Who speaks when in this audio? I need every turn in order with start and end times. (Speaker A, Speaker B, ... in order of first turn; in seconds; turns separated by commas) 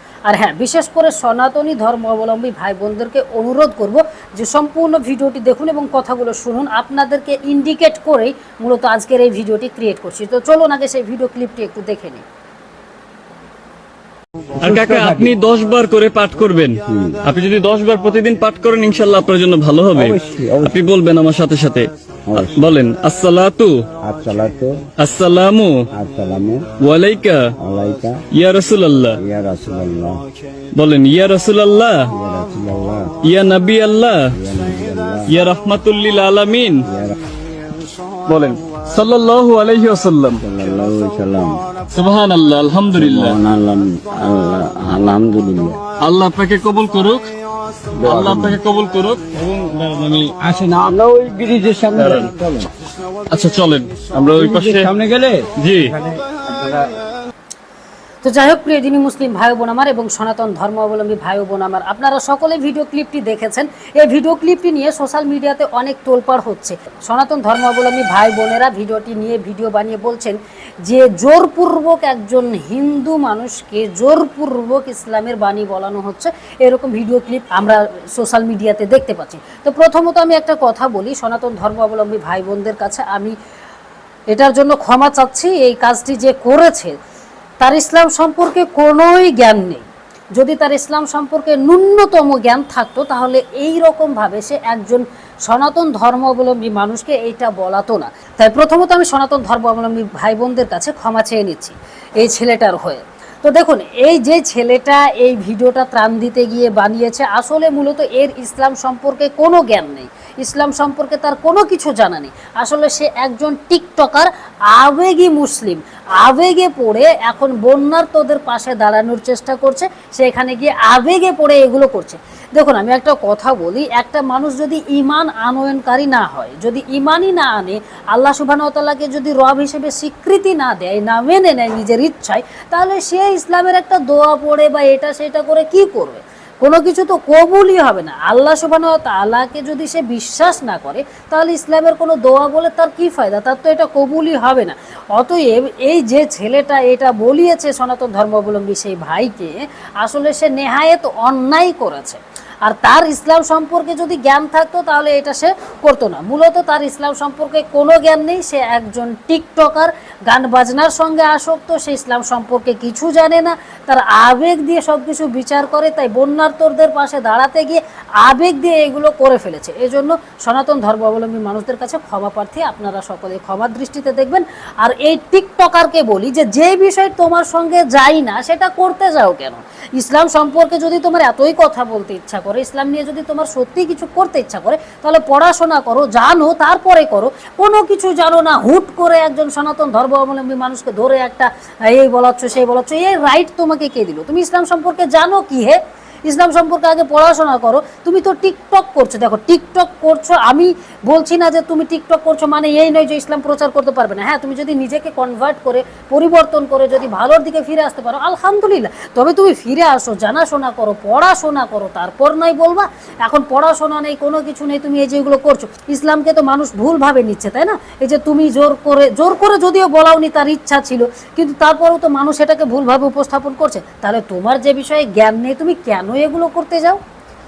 Speaker A: 0.3-12.2, Speaker B: 14.6-23.8, Speaker C: 14.6-15.3, Speaker C: 16.9-17.2, Speaker C: 20.0-20.7, Speaker C: 22.3-22.6, Speaker C: 24.0-24.8, Speaker B: 25.0-25.9, Speaker C: 25.9-26.7, Speaker B: 26.8-27.4, Speaker C: 27.6-28.2, Speaker B: 28.3-29.2, Speaker C: 29.2-30.2, Speaker B: 30.8-32.1, Speaker C: 32.1-33.2, Speaker B: 33.2-34.3, Speaker C: 34.3-35.3, Speaker B: 35.3-36.9, Speaker C: 36.9-37.1, Speaker B: 38.3-40.4, Speaker C: 40.4-41.7, Speaker B: 41.9-43.4, Speaker C: 43.0-45.8, Speaker B: 46.0-47.3, Speaker C: 48.0-48.6, Speaker B: 48.0-50.3, Speaker C: 50.4-52.7, Speaker B: 52.0-52.3, Speaker B: 53.3-54.9, Speaker C: 54.4-56.8, Speaker B: 55.6-56.0, Speaker A: 58.2-83.3, Speaker A: 84.3-87.0, Speaker A: 87.6-227.0